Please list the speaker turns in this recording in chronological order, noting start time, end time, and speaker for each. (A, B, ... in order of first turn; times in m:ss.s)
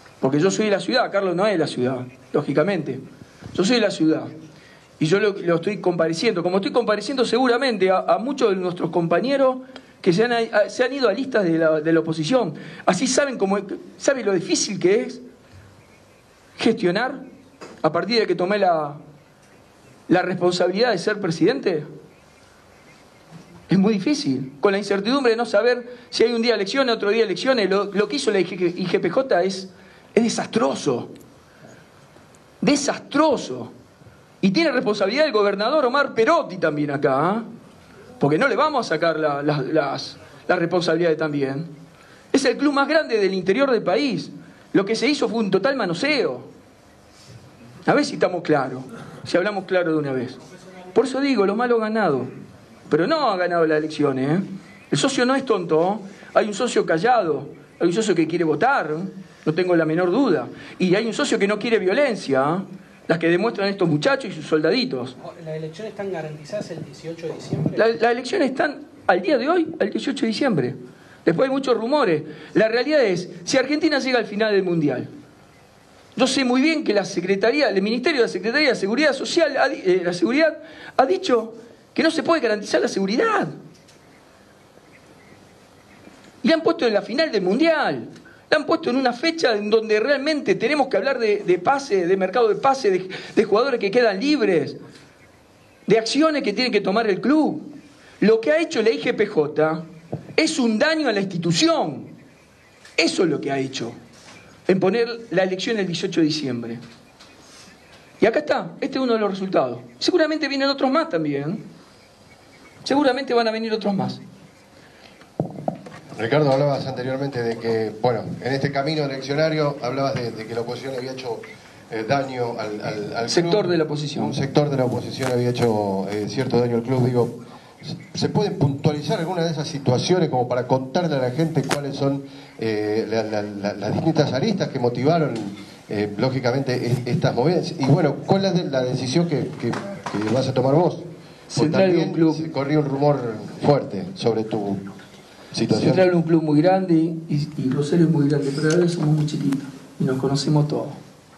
0:00.2-0:03.0 A
0:03.5-0:04.3 A
0:05.0-0:15.2 A
0:16.6-0:17.2 A
0:17.8-0:19.0 A
0:20.1-0:21.9 A
0:23.7-0:31.1 A
0:32.6-0:33.7 A
0:34.4-0:37.4 A
0:38.2-0:41.7 A
0:42.3-0:46.5 A
0:47.8-0:50.4 A
0:50.9-0:52.3 A
0:52.9-1:05.2 A
1:05.2-1:07.9 B
1:07.7-1:15.1 A
1:16.2-1:23.5 A
1:26.4-1:34.8 A
1:35.8-1:37.7 A
1:38.2-1:39.8 A
1:40.4-1:42.1 A
1:43.0-1:44.0 A
1:44.7-1:46.8 A
1:48.2-1:51.6 A
1:52.8-1:54.2 A
1:56.2-2:24.9 C
2:03.3-2:04.4 A
2:21.5-2:22.4 A
2:25.5-2:26.1 C
2:25.7-2:31.0 A